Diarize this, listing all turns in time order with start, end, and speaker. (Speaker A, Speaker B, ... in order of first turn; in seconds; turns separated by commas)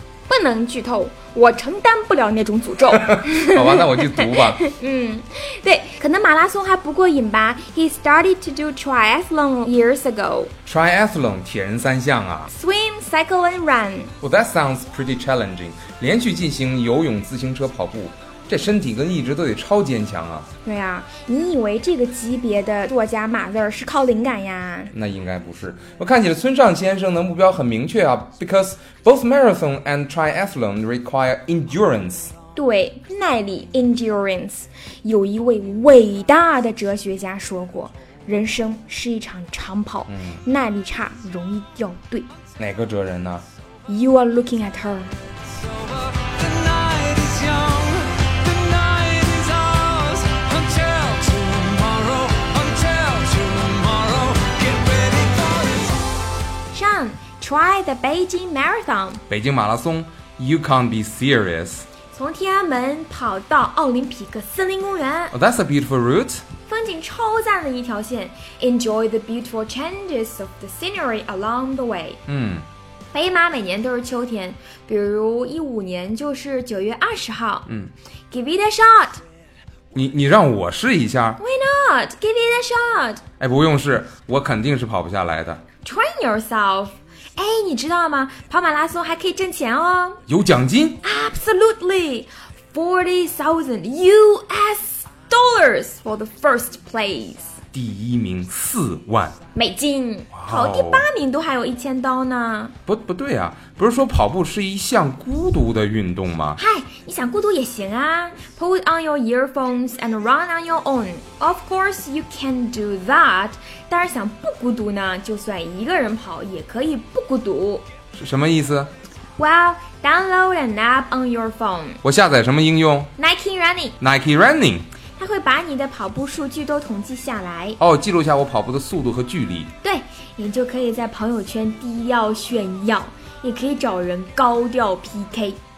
Speaker A: 0.3-10.5, Speaker B: 2.9-4.6, Speaker B: 10.6-12.5, Speaker A: 12.5-14.1, Speaker B: 14.2-20.5, Speaker A: 20.6-24.9, Speaker B: 24.9-32.3, Speaker A: 32.5-42.3, Speaker B: 40.1-40.4, Speaker B: 42.6-43.5, Speaker A: 43.9-45.1, Speaker C: 45.7-56.1, Speaker A: 56.7-59.2, Speaker B: 59.3-61.9, Speaker A: 62.1-65.3, Speaker B: 65.3-66.4, Speaker A: 66.7-72.2, Speaker B: 72.3-72.7, Speaker A: 73.1-77.7, Speaker B: 77.7-77.9, Speaker A: 78.3-79.2, Speaker B: 79.9-81.4, Speaker A: 81.4-83.2, Speaker B: 83.4-85.6, Speaker A: 85.8-90.2, Speaker B: 90.3-91.0, Speaker A: 91.0-97.6, Speaker B: 97.7-99.3, Speaker A: 99.5-102.7, Speaker B: 100.3-101.0, Speaker B: 102.9-106.6, Speaker A: 106.6-117.8, Speaker B: 118.1-118.9, Speaker A: 119.4-122.0, Speaker B: 122.0-123.1, Speaker A: 123.2-124.0, Speaker B: 124.0-124.9, Speaker A: 125.2-127.8, Speaker B: 127.8-129.7, Speaker A: 129.8-135.6